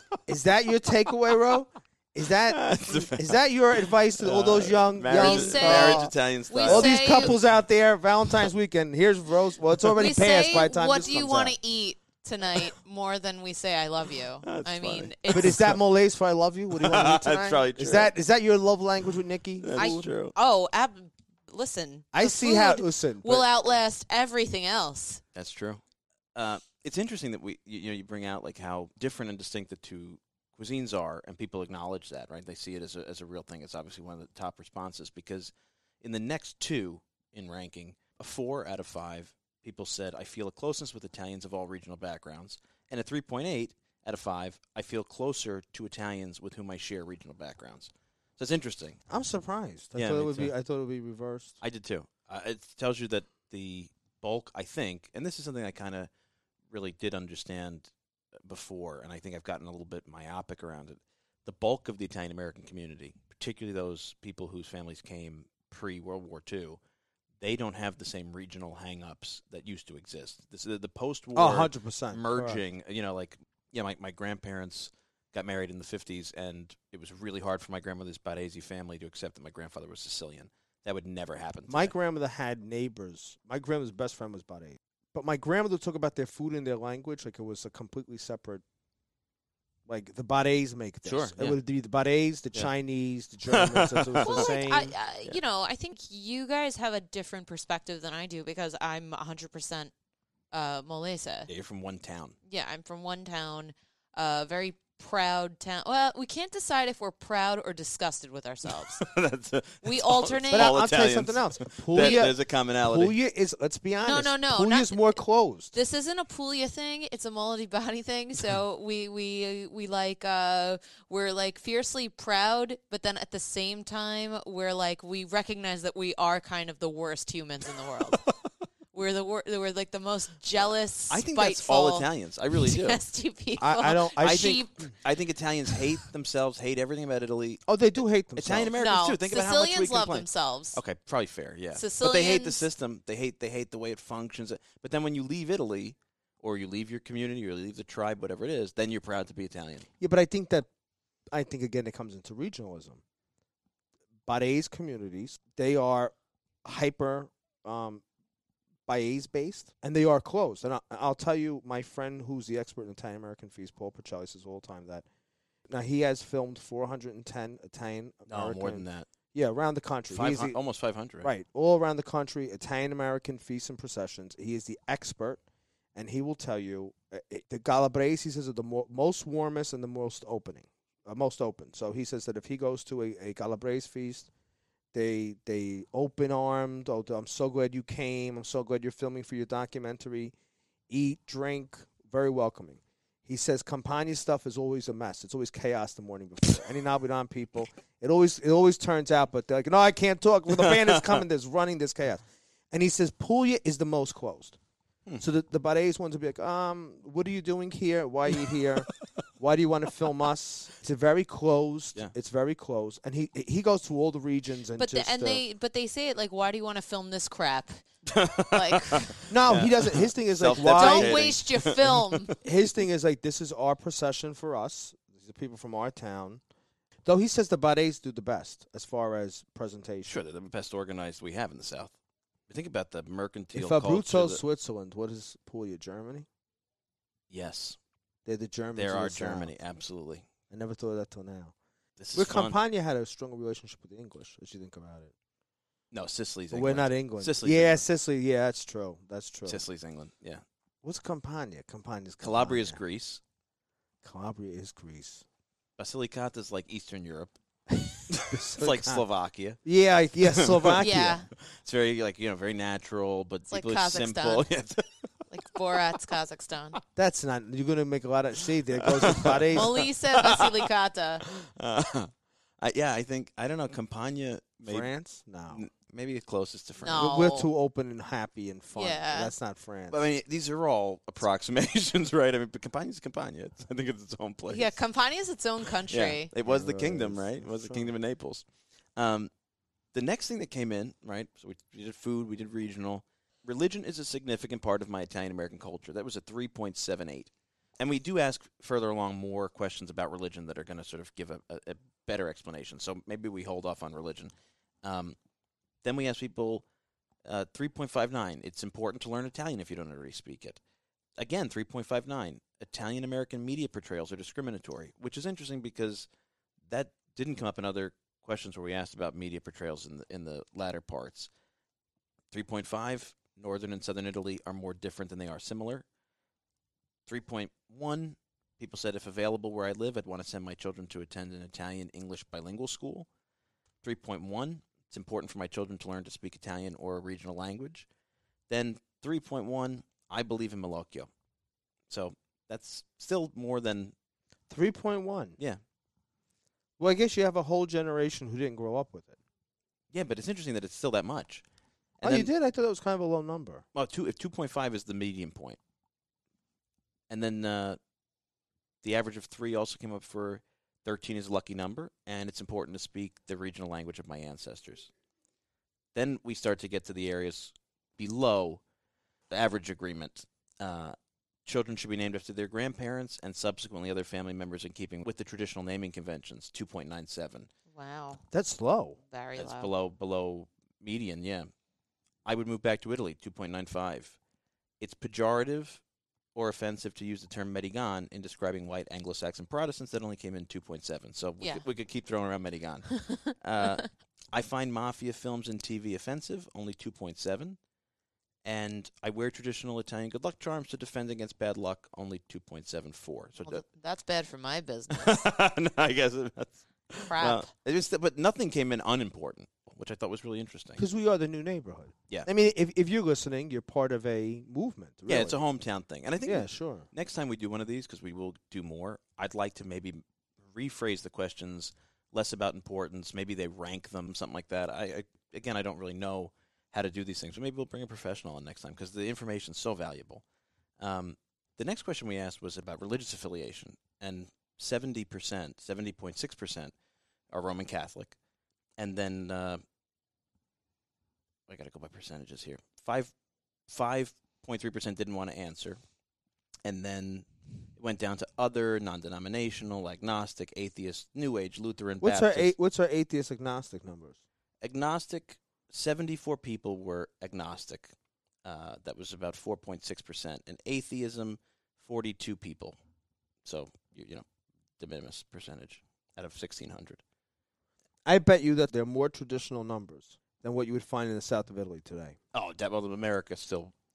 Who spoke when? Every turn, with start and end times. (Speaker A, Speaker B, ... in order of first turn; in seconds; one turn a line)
Speaker A: 0.3-11.6
Speaker B: 2.5-3.3
Speaker B: 4.2-7.4
Speaker C: 5.1-7.3
Speaker C: 9.9-15.6
Speaker B: 14.4-15.8
Speaker A: 15.3-20.1
Speaker B: 16.7-18.1
Speaker B: 19.6-20.3
Speaker C: 19.8-25.2
Speaker A: 22.1-23.5
Speaker B: 25.3-25.8
Speaker B: 26.3-49.0
Speaker A: 49.1-51.6
Speaker B: 50.0-50.5
Speaker B: 51.6-56.1
Speaker B: 56.7-57.9
Speaker B: 58.4-66.8
Speaker B: 67.4-81.9
Speaker A: 71.3-72.6
Speaker A: 81.7-88.6
Speaker A: 89.8-94.9
Speaker B: 91.0-91.6
Speaker B: 93.5-94.5
Speaker C: 94.2-99.9
Speaker C: 100.5-101.5
Speaker B: 101.5-102.3
Speaker C: 102.5-109.0
Speaker B: 108.9-113.1
Speaker C: 109.8-110.8
Speaker A: 110.5-115.7
Speaker C: 111.9-112.3
Speaker C: 114.0-115.2
Speaker C: 115.7-128.3
Speaker C: 128.9-134.9
Speaker B: 130.6-133.0
Speaker A: 133.6-134.9
Speaker B: 134.2-137.7
Speaker A: 137.7-138.7
Speaker B: 138.3-149.9
Speaker C: 138.8-140.8
Speaker C: 141.7-142.7
Speaker A: 150.0-150.7
Speaker A: 151.3-153.0
Speaker A: 154.2-158.0
Speaker A: 158.9-165.0
Speaker A: 165.7-170.6
Speaker B: 168.3-169.1
Speaker B: 170.1-171.3
Speaker A: 171.2-175.4
Speaker A: 175.9-184.3
Speaker A: 184.9-190.3
Speaker A: 190.9-204.6
Speaker A: 205.2-208.9
Speaker A: 209.4-215.4
Speaker C: 214.8-217.8
Speaker B: 218.1-222.3
Speaker C: 218.5-219.2
Speaker A: 219.3-221.3
Speaker C: 220.7-222.3
Speaker A: 222.4-226.4
Speaker A: 227.1-230.2
Speaker B: 230.1-231.9
Speaker B: 232.5-234.4
Speaker A: 233.5-236.2
Speaker B: 237.3-237.8
Speaker A: 238.2-239.5
Speaker B: 238.8-240.3
Speaker A: 240.5-241.5
Speaker B: 242.0-242.6
Speaker A: 242.1-245.1
Speaker B: 245.9-247.8
Speaker A: 246.5-249.6
Speaker B: 249.4-250.4
Speaker A: 250.8-252.8
Speaker B: 252.2-253.2
Speaker A: 254.0-255.2
Speaker B: 255.8-257.4
Speaker B: 258.1-259.6
Speaker A: 258.1-259.0
Speaker A: 259.6-261.2
Speaker B: 260.2-265.2
Speaker C: 260.8-261.3
Speaker C: 263.5-264.4
Speaker C: 265.3-266.8
Speaker A: 266.9-269.8
Speaker B: 268.9-270.7
Speaker C: 269.5-271.2
Speaker B: 271.2-274.9
Speaker A: 274.6-275.6
Speaker B: 275.5-277.3
Speaker C: 276.8-277.5
Speaker A: 276.9-280.0
Speaker C: 278.7-279.3
Speaker B: 279.9-284.8
Speaker C: 284.5-286.3
Speaker B: 285.9-289.3
Speaker A: 286.4-287.9
Speaker B: 289.9-304.3
Speaker B: 304.8-305.2
Speaker B: 305.8-306.6
Speaker B: 307.2-310.6
Speaker B: 311.2-316.1
Speaker B: 316.7-321.3
Speaker B: 322.3-325.8
Speaker B: 327.1-333.1
Speaker B: 333.8-337.9
Speaker B: 338.5-341.1
Speaker B: 341.9-343.9
Speaker A: 344.5-345.4
Speaker A: 346.8-349.1
Speaker B: 349.9-351.4
Speaker B: 352.0-352.3
Speaker A: 352.0-353.6
Speaker B: 353.7-355.6
Speaker B: 357.1-357.8
Speaker B: 358.8-364.9
Speaker B: 365.9-368.6
Speaker B: 369.3-377.5
Speaker C: 377.7-378.2
Speaker A: 378.3-379.0
Speaker C: 379.1-379.7
Speaker B: 379.4-381.5
Speaker B: 382.2-384.2
Speaker B: 384.8-385.8
Speaker B: 386.3-397.6
Speaker C: 391.4-391.6
Speaker C: 393.1-393.7
Speaker B: 398.4-403.6
Speaker C: 403.4-405.1
Speaker B: 404.9-410.8
Speaker C: 407.0-407.5
Speaker A: 410.8-415.4
Speaker B: 415.1-430.2
Speaker A: 416.2-416.9
Speaker B: 430.8-436.7
Speaker B: 437.3-438.1
Speaker B: 438.8-439.6
Speaker B: 441.5-443.1
Speaker B: 443.7-445.8
Speaker B: 446.6-452.5
Speaker A: 452.0-454.2
Speaker B: 454.6-457.9
Speaker B: 458.4-462.8
Speaker B: 463.4-464.2
Speaker B: 464.8-467.0
Speaker A: 468.1-472.2
Speaker B: 472.3-473.7